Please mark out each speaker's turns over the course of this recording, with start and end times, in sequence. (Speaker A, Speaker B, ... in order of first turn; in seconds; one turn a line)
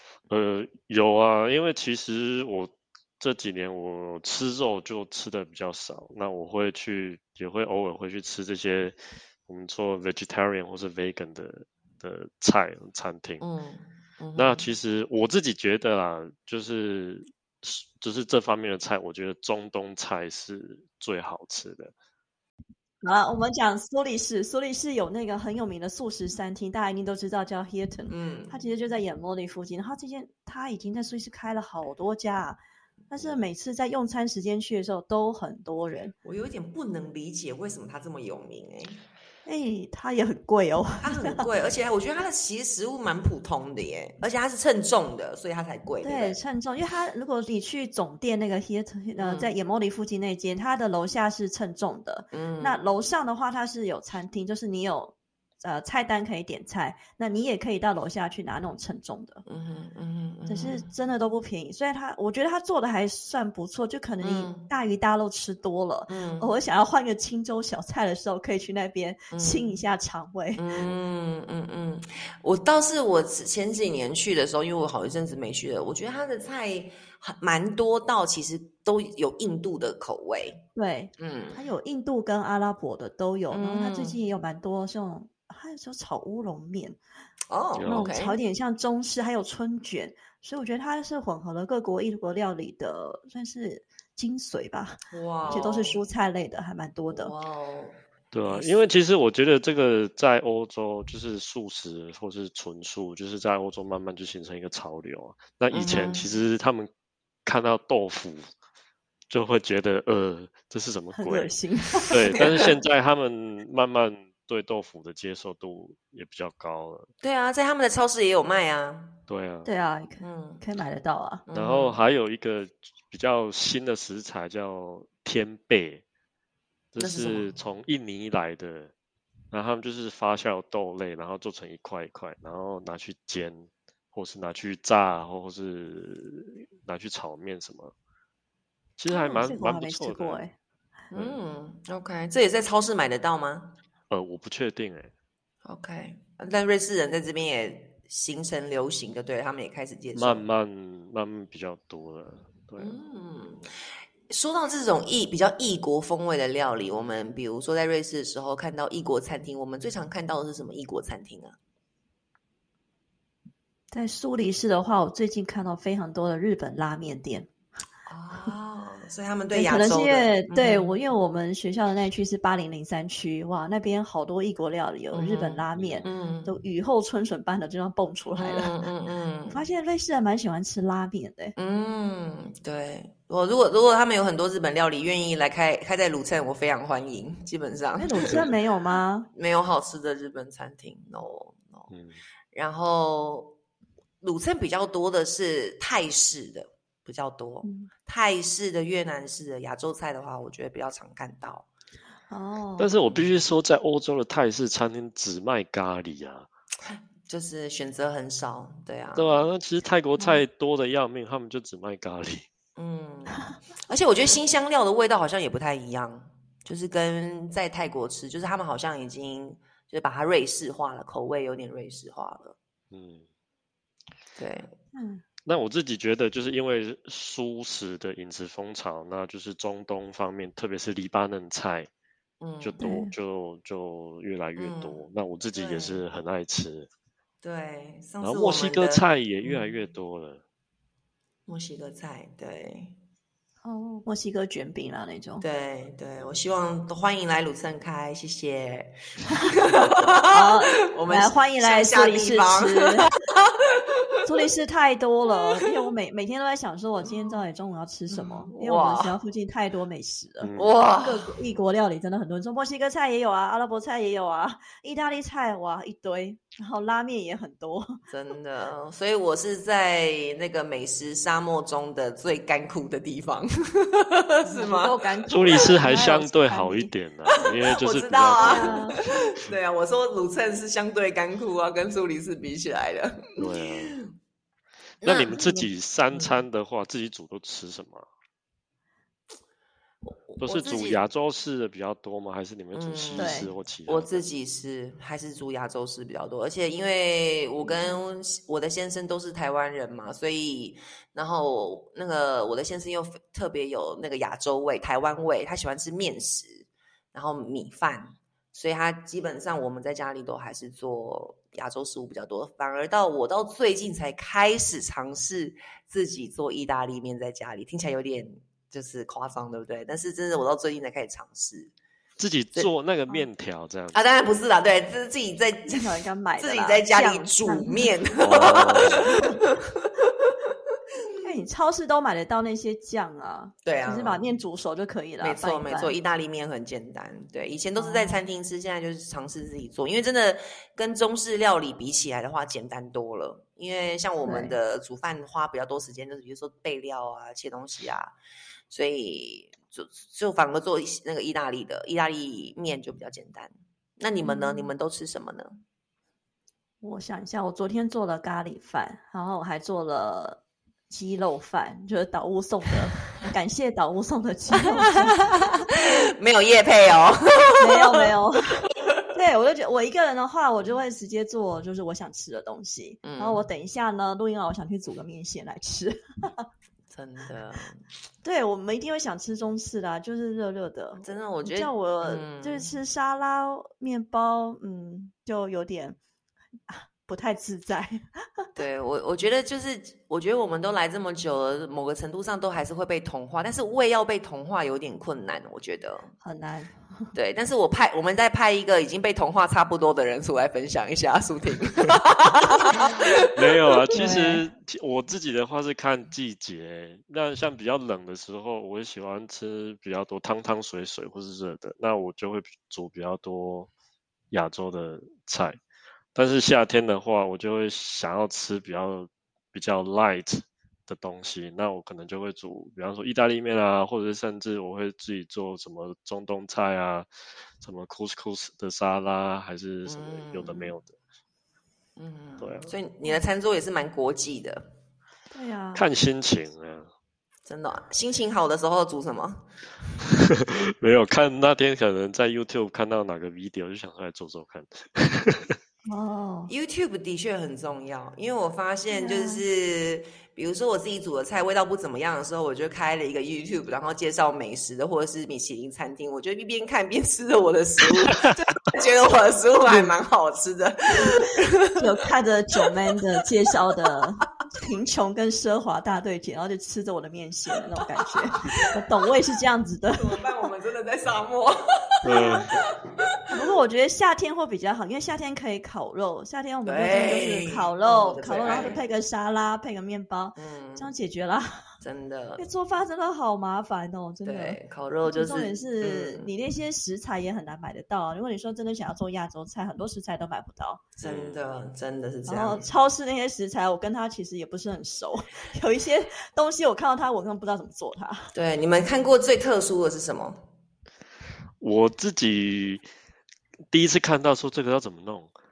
Speaker A: 0.3-13.4
Speaker B: 13.4-14.7
Speaker A: 14.4-21.9
Speaker C: 23.0-32.6
Speaker B: 28.1-28.6
Speaker C: 33.1-36.1
Speaker B: 36.2-39.0
Speaker C: 39.5-41.5
Speaker B: 41.0-46.4
Speaker C: 46.0-59.4
Speaker B: 49.2-49.5
Speaker B: 52.3-52.8
Speaker B: 59.5-60.9
Speaker C: 60.5-70.9
Speaker B: 64.2-64.7
Speaker B: 66.1-66.5
Speaker B: 69.3-69.8
Speaker B: 70.6-80.6
Speaker C: 80.8-87.0
Speaker B: 81.2-81.6
Speaker B: 83.5-84.2
Speaker B: 87.5-88.4
Speaker A: 87.8-88.1
Speaker C: 87.9-97.3
Speaker B: 95.1-96.0
Speaker A: 95.4-95.7
Speaker B: 97.1-98.8
Speaker A: 98.3-106.9
Speaker B: 105.7-106.3
Speaker A: 107.5-108.5
Speaker A: 109.3-111.5
Speaker C: 111.2-112.4
Speaker A: 112.1-117.1
Speaker B: 112.4-112.7
Speaker B: 117.2-119.2
Speaker A: 119.3-119.7
Speaker C: 119.6-121.4
Speaker B: 120.2-120.6
Speaker B: 121.5-122.0
Speaker A: 121.5-126.0
Speaker A: 126.9-128.9
Speaker B: 127.0-127.5
Speaker A: 129.5-137.9
Speaker A: 139.0-140.4
Speaker C: 139.1-140.5
Speaker B: 141.1-143.8
Speaker A: 144.1-145.1
Speaker B: 145.6-150.4
Speaker A: 150.1-153.0
Speaker B: 152.8-153.7
Speaker B: 154.3-161.6
Speaker C: 163.9-167.5
Speaker B: 168.1-170.9
Speaker C: 169.5-178.8
Speaker B: 175.1-176.5
Speaker A: 175.8-176.1
Speaker B: 178.4-179.6
Speaker C: 179.5-181.5
Speaker B: 181.6-188.6
Speaker C: 188.0-189.3
Speaker B: 189.3-191.9
Speaker A: 191.9-192.2
Speaker B: 192.5-193.6
Speaker B: 194.2-201.7
Speaker C: 197.6-197.9
Speaker C: 202.3-202.9
Speaker A: 202.8-206.5
Speaker B: 207.3-209.5
Speaker A: 209.2-212.5
Speaker B: 212.8-222.6
Speaker A: 222.9-223.2
Speaker B: 224.4-224.7
Speaker C: 224.9-225.2
Speaker A: 225.4-231.9
Speaker B: 232.4-232.9
Speaker A: 232.6-236.9
Speaker C: 232.8-233.1
Speaker B: 234.6-236.0
Speaker B: 237.4-239.8
Speaker A: 238.2-240.4
Speaker B: 241.5-243.0
Speaker C: 243.6-245.4
Speaker B: 245.4-254.1
Speaker C: 249.6-253.1
Speaker C: 254.2-268.0
Speaker B: 258.1-259.2
Speaker A: 260.4-260.7
Speaker B: 260.6-261.3
Speaker B: 268.1-275.8
Speaker C: 274.4-276.9
Speaker A: 275.3-278.9
Speaker B: 277.3-284.1
Speaker C: 278.4-279.0
Speaker A: 283.4-284.0
Speaker A: 285.0-288.1
Speaker B: 285.0-286.4
Speaker B: 290.0-291.0
Speaker A: 290.4-294.2
Speaker B: 292.7-321.7
Speaker C: 293.2-293.5
Speaker C: 297.6-297.9
Speaker A: 322.2-324.1
Speaker B: 323.9-330.3
Speaker C: 325.7-328.4
Speaker A: 328.2-329.1
Speaker C: 329.0-329.4
Speaker C: 331.2-335.9
Speaker B: 333.6-334.2
Speaker B: 335.2-348.1
Speaker C: 337.8-338.2
Speaker C: 344.2-344.5
Speaker B: 348.7-355.6
Speaker C: 354.2-354.7
Speaker C: 356.8-365.5
Speaker B: 364.7-368.1
Speaker C: 367.6-376.5
Speaker B: 373.0-373.4
Speaker B: 376.9-377.8
Speaker C: 378.2-386.0
Speaker B: 381.0-382.7
Speaker C: 386.7-388.5
Speaker B: 388.6-396.1
Speaker C: 396.2-397.1
Speaker B: 397.1-403.3
Speaker A: 403.3-413.7
Speaker C: 403.9-404.4
Speaker A: 414.3-415.6
Speaker A: 416.1-427.1
Speaker A: 427.6-430.9
Speaker B: 429.9-430.7
Speaker B: 432.0-434.7
Speaker A: 432.4-432.7
Speaker C: 435.3-435.9
Speaker A: 435.8-436.9
Speaker B: 437.5-439.5
Speaker A: 440.2-445.6
Speaker C: 445.9-446.5
Speaker B: 446.5-461.7
Speaker C: 448.9-449.4
Speaker C: 461.0-470.2
Speaker B: 468.3-468.6
Speaker B: 469.9-472.9
Speaker A: 472.0-472.5
Speaker C: 473.3-481.6
Speaker B: 476.7-478.8
Speaker B: 480.4-480.9
Speaker B: 481.8-482.4
Speaker C: 482.4-490.9
Speaker B: 484.2-486.3
Speaker B: 491.0-492.7
Speaker A: 491.0-491.4
Speaker C: 492.3-498.3
Speaker B: 498.3-500.4
Speaker A: 501.6-502.9
Speaker A: 503.7-505.3